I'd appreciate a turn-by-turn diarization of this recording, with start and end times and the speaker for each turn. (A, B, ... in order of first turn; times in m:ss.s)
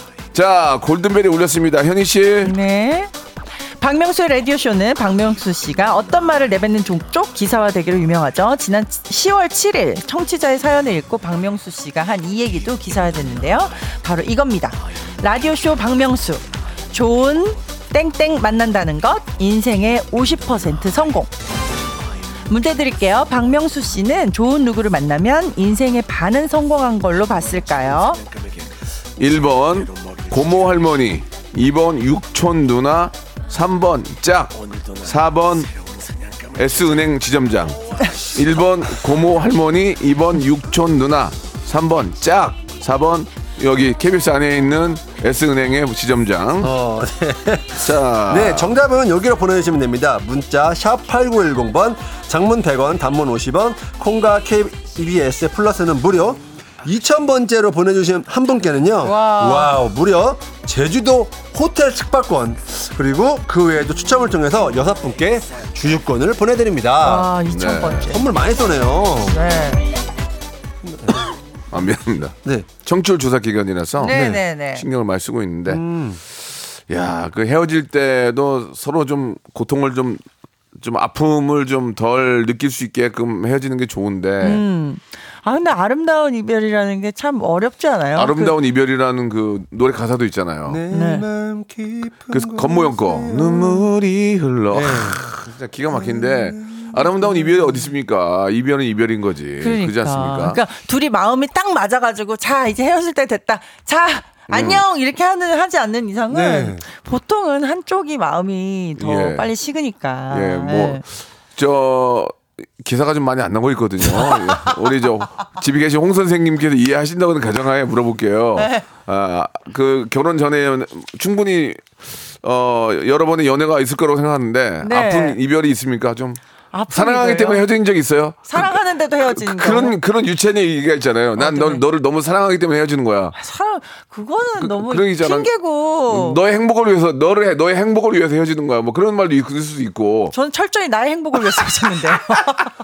0:00.3-0:02.6 A
0:02.4-0:03.1 B
0:03.8-0:21.3 B
0:22.5-0:28.2 B
0:29.2-0:35.8 A
0:36.5-0:46.7 A
0:46.6-1:07.3 C
0:47.8-0:48.8 A
0:59.0-0:59.8 B
1:07.0-1:08.2 B
1:07.5-1:08.2 A
1:08.1-1:09.4 C
1:09.3-1:09.9 B
1:10.8-1:11.2 C
1:11.7-1:15.8 A
1:14.0-1:14.8 B
1:15.7-1:16.2 C
1:16.9-1:20.2 A
1:20.8-1:24.6 A
1:24.4-1:28.6 B
1:28.2-1:30.8 A
1:30.7-1:33.9 C
1:30.9-1:31.3 B
1:32.3-1:40.6 A
1:34.7-1:35.2 C
1:35.9-1:37.8 C
1:39.6-1:51.0 B
1:44.5-1:44.8 A
1:46.3-1:46.8 C
1:49.0-1:49.5 A
1:50.3-2:13.4 A
1:54.1-1:54.8 B
1:58.6-1:58.8 B
2:04.8-2:05.4 B
2:06.7-2:07.6 B
2:08.5-2:10.0 B
2:11.4-2:11.8 B
2:13.4-2:16.4 B
2:14.6-2:15.5 A
2:16.1-2:20.4 A
2:20.3-2:22.7 B